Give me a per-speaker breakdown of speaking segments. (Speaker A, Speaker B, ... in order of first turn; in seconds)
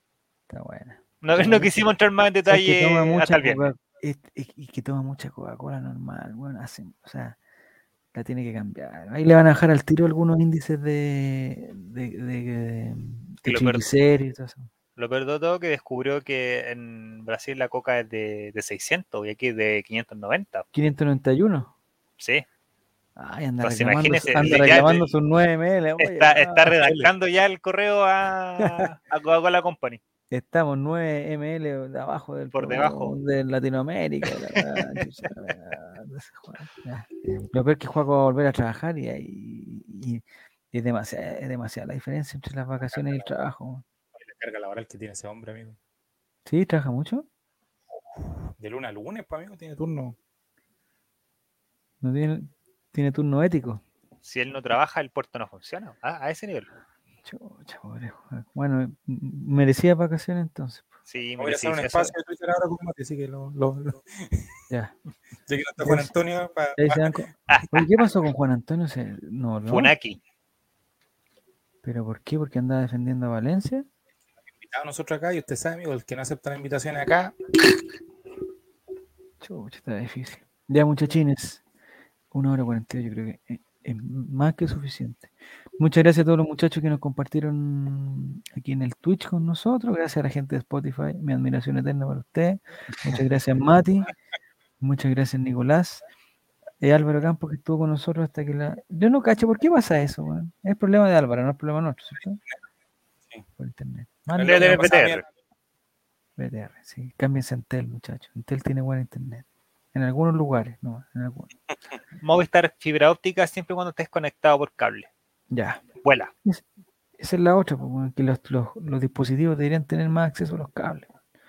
Speaker A: 0.5-1.9, 2.5-7.4, 8.1-14.7, 20.7-21.7, 23.2-26.8, 28.6-28.9, 30.3-43.8, 46.5-47.2, 52.0-53.8, 57.2-60.9, 64.7-65.0, 65.8-66.1, 66.8-69.9, 71.8-73.8, 79.4-81.6, 82.3-94.1, 94.8-96.0, 96.8-102.4, 103.6-104.9, 106.4-111.5, 115.5-115.8, 117.2-121.1
Speaker B: 1.2-3.7, 13.4-13.9, 15.0-20.6, 22.2-22.4, 23.6-25.1, 26.0-30.0, 32.5-33.2, 54.2-56.7, 61.1-62.1, 67.5-68.0, 69.7-70.2, 104.4-105.2, 112.2-115.1, 116.0-116.3
Speaker C: 26.8-27.1, 42.9-43.2, 44.2-45.8, 48.2-50.2, 61.4-64.5, 65.5-67.1, 74.6-77.4, 104.3-105.3